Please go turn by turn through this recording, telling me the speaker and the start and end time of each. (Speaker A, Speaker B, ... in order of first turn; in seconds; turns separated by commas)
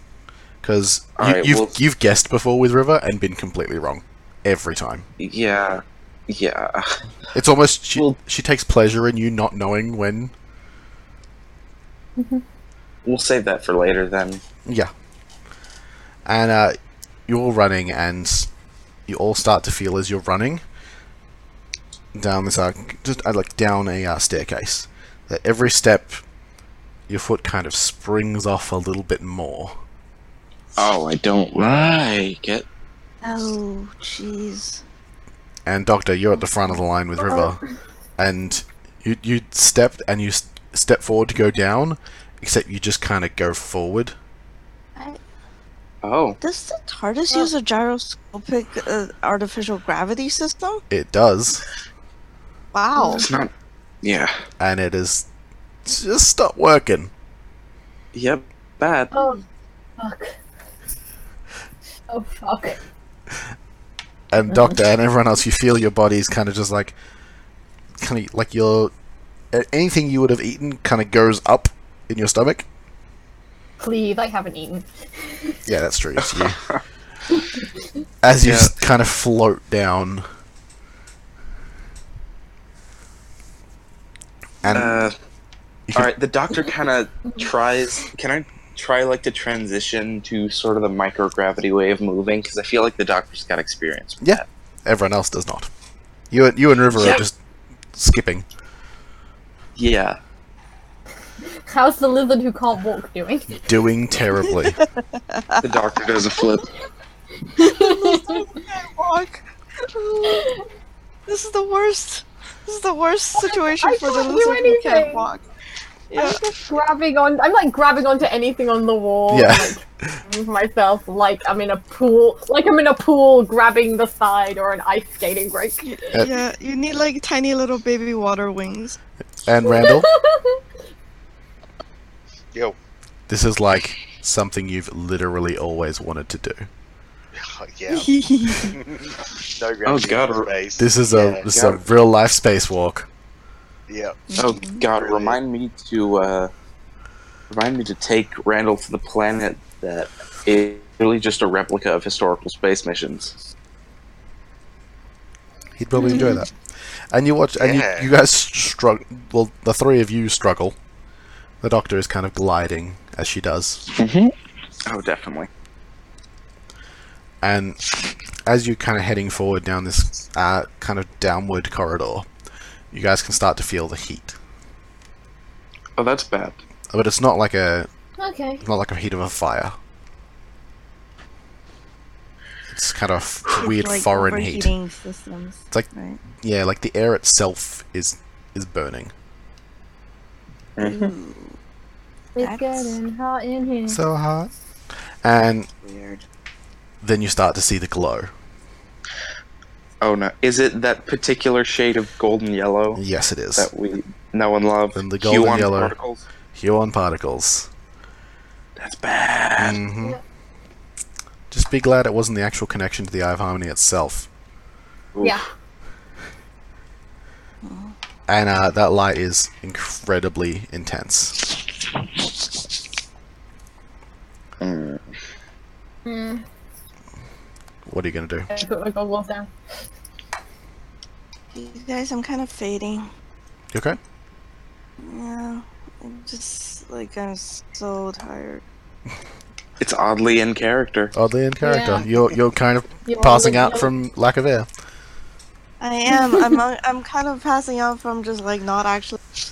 Speaker A: 0.6-5.0, Speaker B: 1.2-1.7, Speaker B: 5.2-7.0, Speaker A: 7.3-10.3, Speaker C: 12.2-12.4, Speaker B: 13.0-14.4, Speaker A: 14.7-14.9, Speaker A: 16.3-18.5, Speaker A: 19.1-20.6, Speaker A: 22.1-26.2, Speaker A: 27.1-29.7, Speaker B: 30.8-32.6, Speaker D: 33.2-34.8, Speaker A: 35.6-37.6, Speaker C: 37.2-37.5, Speaker A: 38.2-44.1, Speaker B: 46.0-46.4, Speaker D: 46.4-50.8, Speaker A: 50.9-51.6, Speaker D: 52.7-53.3, Speaker B: 53.0-53.5, Speaker B: 54.0-54.3, Speaker A: 54.6-55.3, Speaker A: 55.9-57.1, Speaker B: 58.1-59.1, Speaker C: 59.1-59.4, Speaker C: 60.0-60.4, Speaker C: 62.1-62.8, Speaker A: 64.3-66.9, Speaker A: 68.0-68.9, Speaker A: 69.5-72.7, Speaker C: 73.8-75.6, Speaker A: 75.7-76.6, Speaker B: 76.2-76.8, Speaker A: 78.2-80.2, Speaker B: 78.4-78.7, Speaker A: 84.6-85.0, Speaker B: 84.7-85.2, Speaker B: 85.9-94.4, Speaker A: 94.2-95.7, Speaker A: 96.3-97.4, Speaker B: 96.9-97.2, Speaker A: 97.9-98.5, Speaker B: 99.8-100.2, Speaker C: 101.7-103.5, Speaker A: 103.6-104.8, Speaker D: 104.8-105.6, Speaker B: 105.6-106.7, Speaker C: 107.5-108.4, Speaker D: 107.6-110.6, Speaker C: 110.3-110.6, Speaker D: 111.3-115.4, Speaker C: 113.4-115.3, Speaker D: 116.1-116.4, Speaker C: 116.2-126.2, Speaker A: 119.3-120.2, Speaker D: 125.8-129.0, Speaker A: 129.4-130.1, Speaker C: 129.7-130.6, Speaker A: 133.3-136.7, Speaker E: 137.3-141.4, Speaker D: 137.9-138.8, Speaker B: 139.8-140.5, Speaker A: 140.8-143.1, Speaker B: 141.5-141.8, Speaker E: 143.9-144.2, Speaker D: 144.3-144.8, Speaker B: 144.4-146.5, Speaker E: 145.1-145.4, Speaker B: 147.5-153.3, Speaker A: 155.8-156.5, Speaker D: 156.0-156.4, Speaker A: 157.1-160.8, Speaker E: 157.6-158.1, Speaker A: 161.6-163.9, Speaker B: 163.9-164.3, Speaker B: 164.9-165.5, Speaker A: 167.4-167.8, Speaker A: 168.4-172.3, Speaker A: 172.9-174.4, Speaker B: 176.0-176.6, Speaker A: 176.9-177.9, Speaker C: 178.2-178.6, Speaker A: 178.6-179.8, Speaker A: 182.7-184.7, Speaker D: 183.6-186.2, Speaker A: 186.4-189.1, Speaker B: 190.8-191.1, Speaker D: 190.8-191.6, Speaker C: 192.3-194.0, Speaker D: 192.4-193.0, Speaker A: 193.9-194.5, Speaker A: 195.2-195.7, Speaker D: 195.8-196.2, Speaker A: 197.0-198.3, Speaker B: 200.0-203.0, Speaker A: 202.9-203.7, Speaker B: 203.6-206.2, Speaker A: 204.9-205.9, Speaker A: 206.5-207.7, Speaker B: 208.8-209.8, Speaker A: 209.6-210.2, Speaker A: 211.5-214.3, Speaker B: 215.2-215.5, Speaker D: 217.6-217.9, Speaker A: 218.3-221.4, Speaker B: 224.6-225.2, Speaker C: 226.1-226.4, Speaker A: 227.9-228.5, Speaker C: 228.5-229.5, Speaker D: 231.5-233.1, Speaker A: 233.7-234.0, Speaker D: 235.0-238.6, Speaker B: 239.8-241.1, Speaker A: 241.2-244.7, Speaker C: 241.6-242.1, Speaker C: 243.1-243.9, Speaker D: 245.8-249.2